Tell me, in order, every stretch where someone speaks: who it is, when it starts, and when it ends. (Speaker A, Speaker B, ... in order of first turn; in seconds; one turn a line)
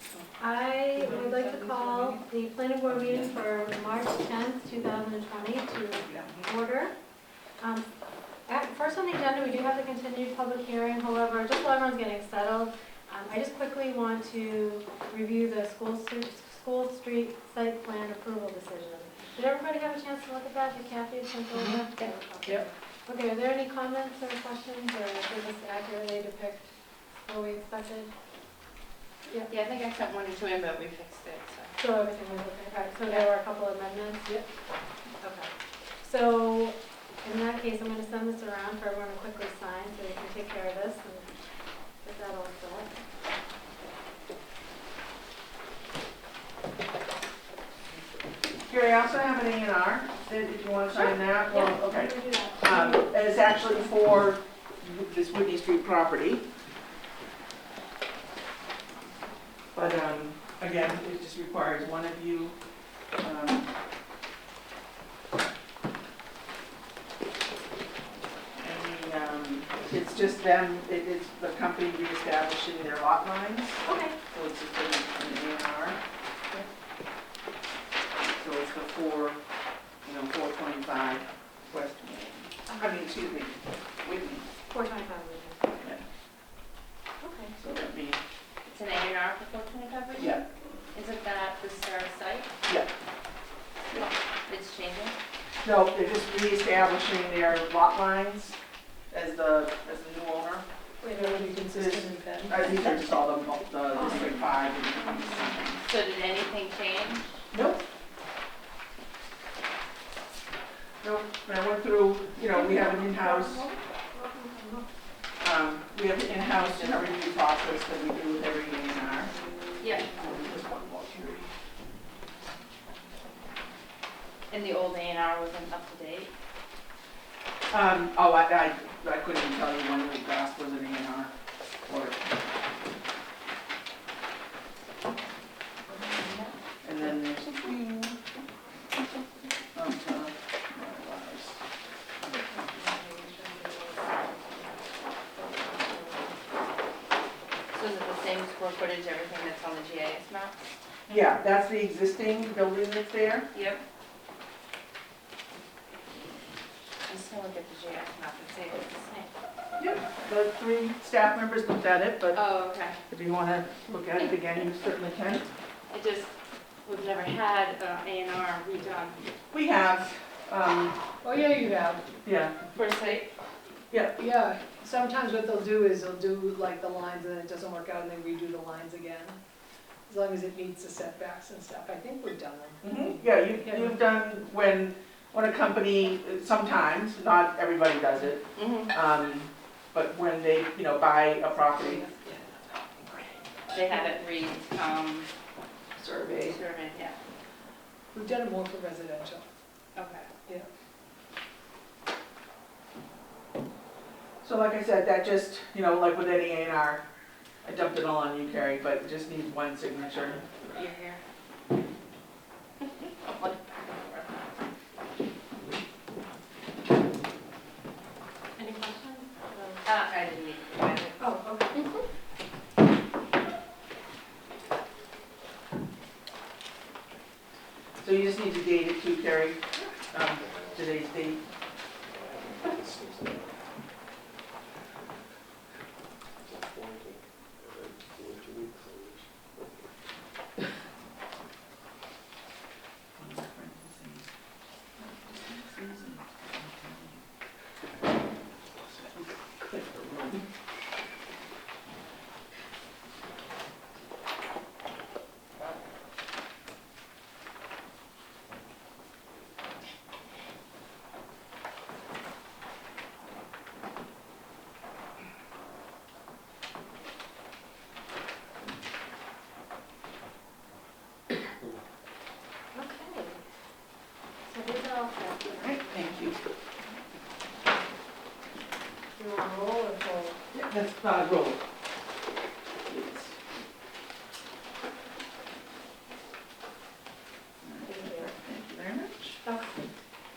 Speaker A: 0.4-6.9
Speaker B: 0.9-2.2
Speaker C: 2.9-3.3
Speaker C: 5.9-6.5
Speaker A: 7.6-7.9
Speaker A: 8.5-26.7
Speaker A: 27.3-28.1
Speaker D: 29.5-31.8
Speaker A: 31.8-34.3
Speaker A: 35.2-35.5
Speaker A: 36.0-41.3
Speaker A: 42.0-43.0
Speaker C: 48.7-56.5
Speaker A: 50.9-53.1
Speaker C: 59.7-62.6
Speaker C: 63.2-63.7
Speaker C: 68.6-76.0
Speaker A: 73.8-74.2
Speaker C: 78.2-79.4
Speaker C: 80.0-84.5
Speaker A: 82.7-82.9
Speaker A: 84.7-85.8
Speaker A: 87.2-87.5
Speaker C: 87.6-88.2
Speaker D: 88.7-90.4
Speaker C: 90.2-90.5
Speaker D: 90.9-92.5
Speaker D: 94.0-95.2
Speaker C: 95.6-98.6
Speaker C: 99.1-100.7
Speaker A: 101.0-101.7
Speaker B: 101.0-102.9
Speaker C: 101.7-105.9
Speaker A: 103.9-104.3
Speaker D: 104.0-104.4
Speaker D: 105.8-107.4
Speaker C: 107.5-107.8
Speaker C: 111.0-113.7
Speaker A: 112.5-114.9
Speaker C: 115.4-119.3
Speaker D: 116.6-117.2
Speaker D: 119.8-120.1
Speaker C: 120.1-121.5
Speaker D: 124.5-126.3
Speaker C: 127.7-131.3
Speaker C: 131.9-132.8
Speaker D: 135.9-136.6
Speaker C: 136.8-138.2
Speaker C: 139.8-141.6
Speaker B: 142.5-143.5
Speaker D: 147.7-150.7
Speaker C: 151.1-153.5
Speaker D: 153.5-153.8
Speaker D: 157.1-159.2
Speaker C: 159.8-162.4
Speaker D: 162.3-163.0
Speaker C: 163.1-165.5
Speaker D: 165.9-166.3
Speaker D: 166.8-169.2
Speaker C: 169.5-171.0
Speaker B: 171.2-172.1
Speaker C: 172.2-172.5
Speaker D: 172.7-173.3
Speaker C: 173.9-174.2
Speaker B: 174.2-179.4
Speaker B: 180.1-184.0
Speaker C: 182.8-192.0
Speaker D: 188.6-188.9
Speaker B: 191.7-193.3
Speaker D: 193.7-195.3
Speaker B: 193.9-194.2
Speaker B: 196.0-196.6
Speaker D: 196.4-197.2
Speaker B: 198.1-199.5
Speaker D: 199.9-200.3
Speaker C: 204.4-207.0
Speaker C: 207.6-210.5
Speaker D: 210.6-211.2
Speaker D: 212.8-214.6
Speaker A: 218.6-219.8
Speaker D: 219.8-221.2
Speaker A: 221.2-222.1
Speaker C: 228.0-231.4
Speaker C: 243.2-244.3
Speaker C: 245.0-247.2
Speaker C: 248.8-250.4
Speaker A: 272.7-273.4
Speaker A: 274.5-276.2
Speaker C: 275.5-276.4
Speaker A: 279.2-280.4
Speaker C: 280.5-281.6
Speaker C: 282.9-283.4
Speaker C: 287.6-289.4
Speaker A: 287.8-288.3
Speaker A: 289.4-289.8